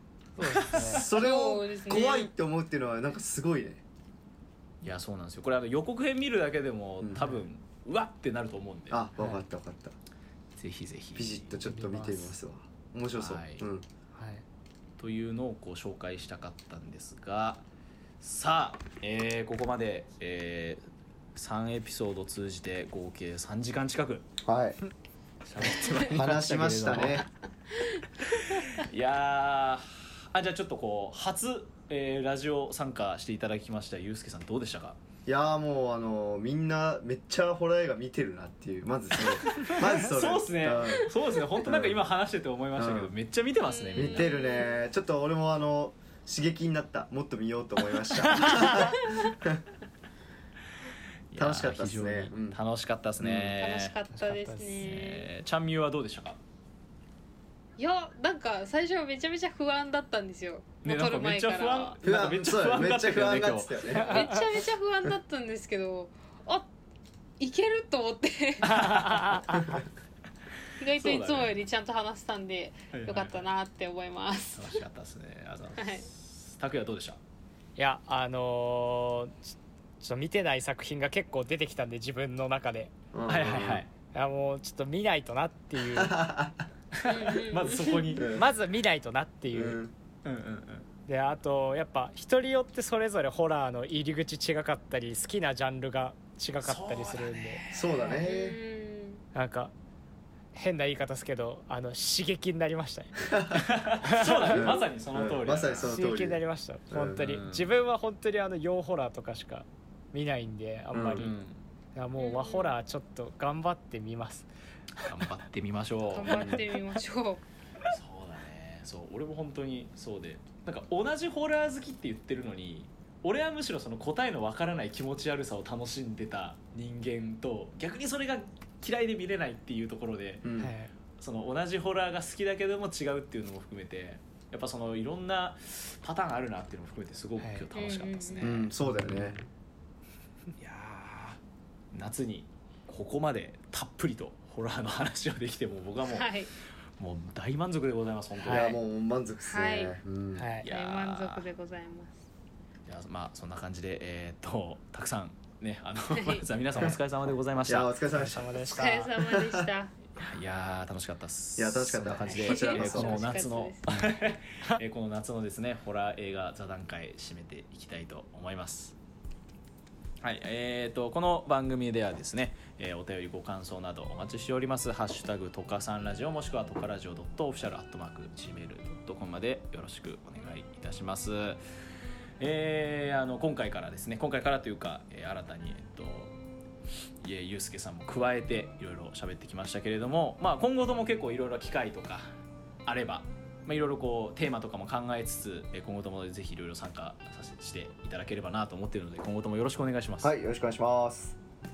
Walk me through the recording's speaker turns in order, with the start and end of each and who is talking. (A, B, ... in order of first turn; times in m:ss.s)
0:00.4-0:01.0 A
0:00.4-0:01.1 B
0:00.9-0:03.8 C
0:01.0-0:02.3 D
0:04.8-0:09.0 B
0:07.0-0:07.4 C
0:08.9-0:10.0 C
0:09.2-0:09.4 A
0:10.6-0:11.5 B
0:11.2-0:13.8 C
0:11.6-0:12.3 A
0:13.2-0:13.6 B
0:14.2-0:14.4 A
0:15.0-0:17.6 B
0:18.2-0:20.8 B
0:21.4-0:24.3 B
0:24.4-0:24.8 C
0:25.5-0:27.3 B
0:26.1-0:27.3 C
0:28.2-0:35.0 B
0:35.3-0:42.0 C
0:39.2-0:44.4 B
0:42.8-0:43.1 C
0:43.6-0:44.8 D
0:44.0-0:49.6 C
0:48.3-0:48.8 A
0:48.8-0:49.3 D
0:51.3-0:54.0 B
0:51.4-0:52.6 C
0:53.2-0:53.6 C
0:53.6-0:55.3 D
0:54.1-0:54.8 A
0:54.8-0:56.4 B
0:57.8-1:02.0 D
1:00.8-1:03.8 B
1:02.0-1:04.3 C
1:04.0-1:04.4 A
1:04.0-1:06.7 D
1:07.4-1:09.1 D
1:08.6-1:09.5 B
1:08.7-1:09.7 A
1:10.8-1:14.8 D
1:11.0-1:11.6 B
1:12.9-1:13.5 B
1:14.6-1:17.2 B
1:15.8-1:16.1 D
1:17.8-1:22.9 A
1:23.1-1:23.8 C
1:23.3-1:23.9 B
1:24.1-1:26.2 A
1:25.8-1:26.6 C
1:26.9-1:28.4 B
1:27.0-1:28.2 D
1:28.2-1:28.5 C
1:28.3-1:29.8 A
1:29.5-1:29.9 C
1:30.2-1:30.9 B
1:31.1-1:37.6 A
1:36.6-1:38.2 B
1:37.7-1:38.6 C
1:38.0-1:39.2 D
1:39.3-1:39.7 A
1:40.5-1:43.4 A
1:43.2-1:43.7 C
1:43.5-1:46.1 B
1:44.0-1:44.6 A
1:44.5-1:47.3 C
1:45.8-1:51.4 A
1:47.2-1:47.7 B
1:50.9-1:51.3 C
1:51.2-1:51.6 B
1:52.0-1:54.5 A
1:52.2-1:52.7 D
1:55.0-1:56.6 B
1:56.1-1:57.4 D
1:56.3-1:56.6 C
1:57.9-2:10.5 B
2:10.4-2:10.7 C
2:10.6-2:10.9 A
2:11.2-2:18.7 B
2:17.4-2:17.6 A
2:17.7-2:18.5 D
2:18.4-2:19.4 C
2:18.8-2:19.4 A
2:20.6-2:21.4 B
2:21.9-2:26.3 B
2:26.0-2:26.5 D
2:27.0-2:28.8 B
2:28.4-2:28.7 A
2:28.5-2:30.5 C
2:29.4-2:30.0 D
2:30.4-2:30.7 A
2:30.6-2:31.5 B
2:30.6-2:32.2 D
2:32.9-2:38.0 B
2:36.1-2:36.4 D
2:37.6-2:39.7 C
2:38.1-2:39.1 A
2:38.7-2:39.9 D
2:40.2-2:49.0 B
2:41.6-2:43.3 C
2:42.2-2:43.8 D
2:50.2-3:01.6 B
3:02.4-3:06.4 B
3:07.2-3:12.3 B
3:12.9-3:20.3 B
3:20.2-3:21.4 C